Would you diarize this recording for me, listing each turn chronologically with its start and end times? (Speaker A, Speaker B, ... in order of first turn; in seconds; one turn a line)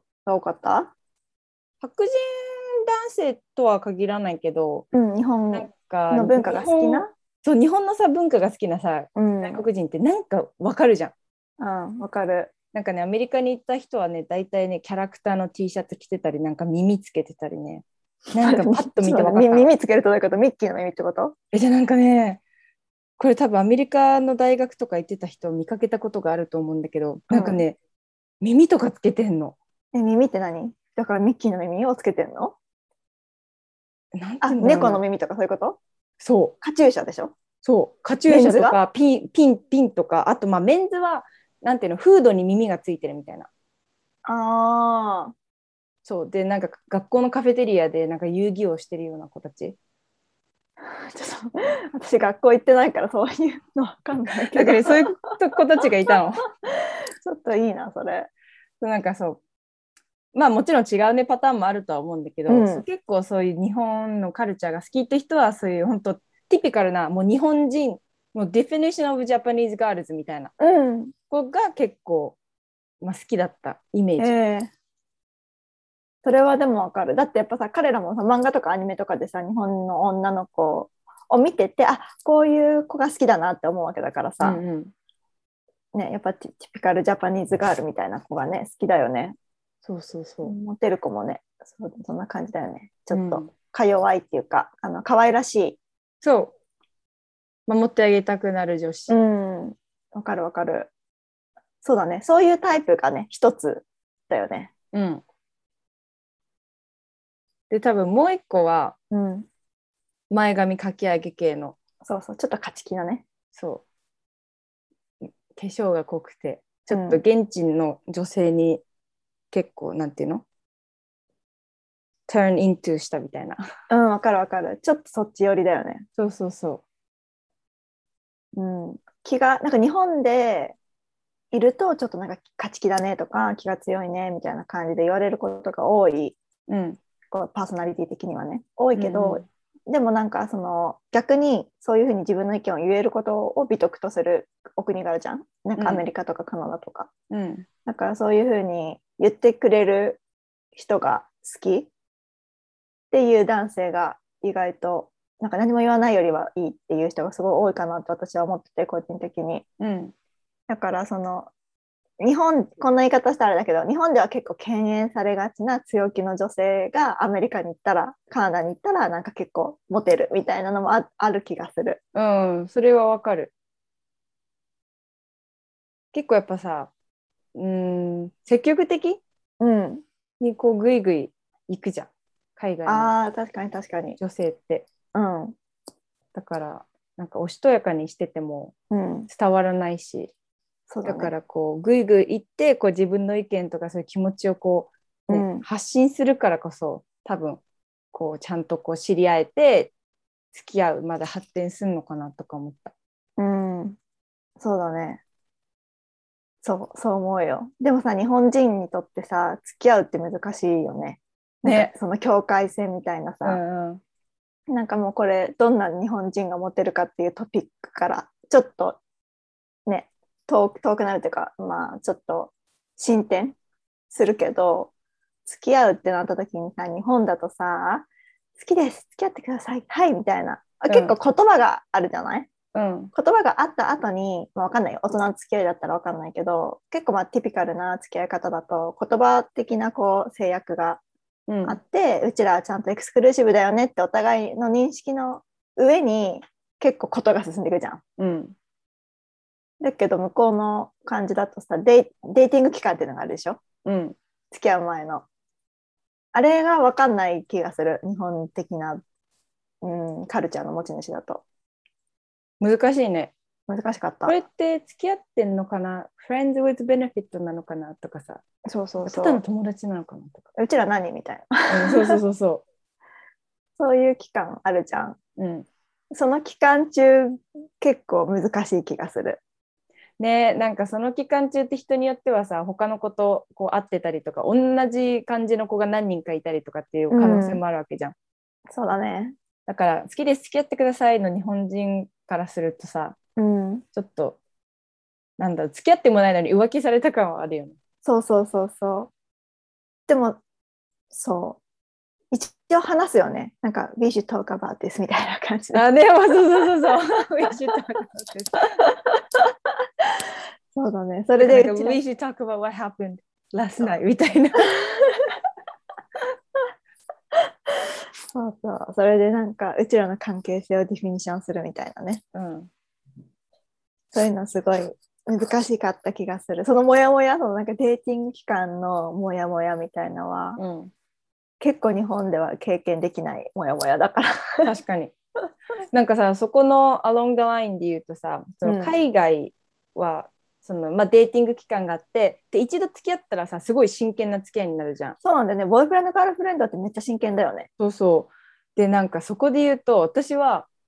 Speaker A: 0.2-0.9
Speaker B: 1.8-4.8
Speaker A: 4.9-7.1
Speaker B: 5.5-11.1
Speaker A: 9.1-9.7
Speaker A: 11.6-12.5
Speaker B: 12.7-19.7
Speaker A: 18.4-21.3
Speaker B: 21.5-22.4
Speaker B: 23.2-27.8
Speaker A: 27.3-27.6
Speaker B: 28.4-29.6
Speaker A: 29.9-32.5
Speaker B: 34.1-35.0
Speaker A: 34.4-35.8
Speaker B: 36.2-36.5
Speaker A: 36.6-37.3
Speaker B: 37.6-43.5
Speaker A: 38.3-38.8
Speaker A: 44.2-45.3
Speaker B: 46.0-49.8
Speaker A: 50.8-55.0
Speaker B: 54.5-56.5
Speaker A: 57.2-58.3
Speaker B: 58.8-59.4
Speaker B: 60.3-70.5
Speaker A: 62.5-62.8
Speaker A: 70.6-71.1
Speaker B: 71.3-72.4
Speaker B: 73.0-74.3
Speaker A: 74.2-74.7
Speaker A: 76.2-84.6
Speaker B: 84.4-84.9
Speaker A: 85.9-89.3
Speaker B: 89.8-90.5
Speaker A: 90.4-95.8
Speaker B: 93.1-93.5
Speaker B: 96.2-96.5
Speaker B: 97.7-99.1
Speaker A: 99.1-100.9
Speaker A: 101.8-104.7
Speaker B: 104.9-105.2
Speaker B: 107.7-109.0
Speaker A: 109.1-109.5
Speaker B: 110.3-111.8
Speaker A: 112.0-113.2
Speaker B: 113.5-113.8
Speaker B: 115.5-118.8
Speaker A: 116.9-117.2
Speaker B: 119.5-120.4
Speaker B: 122.3-123.6
Speaker A: 123.9-126.0
Speaker B: 126.2-126.8
Speaker A: 128.5-130.8
Speaker A: 131.5-136.4
Speaker B: 136.7-137.0
Speaker A: 137.3-147.1
Speaker B: 138.9-139.4
Speaker B: 145.8-146.0
Speaker B: 147.3-147.7
Speaker A: 147.8-150.2
Speaker A: 150.7-151.9
Speaker A: 153.1-159.6
Speaker B: 159.8-160.1
Speaker A: 160.7-161.5
Speaker A: 162.2-172.0
Speaker B: 172.1-173.5
Speaker B: 176.1-176.9
Speaker B: 177.5-179.2
Speaker A: 179.6-180.0
Speaker B: 180.4-183.1
Speaker A: 182.8-184.2
Speaker B: 184.2-184.9
Speaker A: 185.1-185.6
Speaker B: 186.3-188.7
Speaker A: 188.9-189.3
Speaker B: 189.3-190.3
Speaker A: 190.9-191.3
Speaker B: 191.0-197.6
Speaker A: 195.3-195.6
Speaker B: 198.1-199.9
Speaker B: 200.5-202.9
Speaker A: 203.4-204.0
Speaker A: 204.6-205.2
Speaker A: 206.6-213.6
Speaker B: 211.6-211.9
Speaker B: 213.4-214.0
Speaker A: 214.7-219.0
Speaker A: 219.8-223.6
Speaker A: 224.1-224.9
Speaker A: 225.4-228.1
Speaker A: 228.6-232.5
Speaker B: 230.9-231.1
Speaker B: 232.7-233.1
Speaker A: 233.1-241.0
Speaker B: 241.5-241.8
Speaker A: 241.7-248.0
Speaker B: 248.2-248.5
Speaker A: 249.8-253.6
Speaker B: 253.8-254.2
Speaker A: 254.5-255.2
Speaker A: 256.3-259.0
Speaker A: 259.8-261.4
Speaker B: 262.6-263.3
Speaker A: 263.7-264.4
Speaker B: 264.2-268.4
Speaker A: 268.6-269.4
Speaker B: 269.0-270.4
Speaker A: 270.6-272.2
Speaker B: 271.7-272.6
Speaker A: 273.8-275.2
Speaker B: 275.4-275.7
Speaker A: 276.1-279.4
Speaker B: 280.2-288.1
Speaker A: 287.1-287.6
Speaker A: 288.7-289.4
Speaker B: 289.7-293.1
Speaker A: 293.4-293.8
Speaker B: 293.9-294.4
Speaker B: 295.4-297.8
Speaker A: 298.0-299.1
Speaker A: 300.1-300.4
Speaker A: 301.1-301.6
Speaker A: 302.3-305.8
Speaker B: 305.7-308.9
Speaker A: 308.8-309.5
Speaker A: 310.7-312.0
Speaker B: 311.4-314.8
Speaker A: 314.7-315.4
Speaker A: 317.7-322.2
Speaker B: 322.3-322.7
Speaker A: 324.1-330.6
Speaker B: 330.6-330.9
Speaker A: 331.6-334.7
Speaker B: 334.6-335.1
Speaker B: 335.9-345.2
Speaker A: 338.6-338.9
Speaker A: 345.2-347.7
Speaker B: 347.8-350.7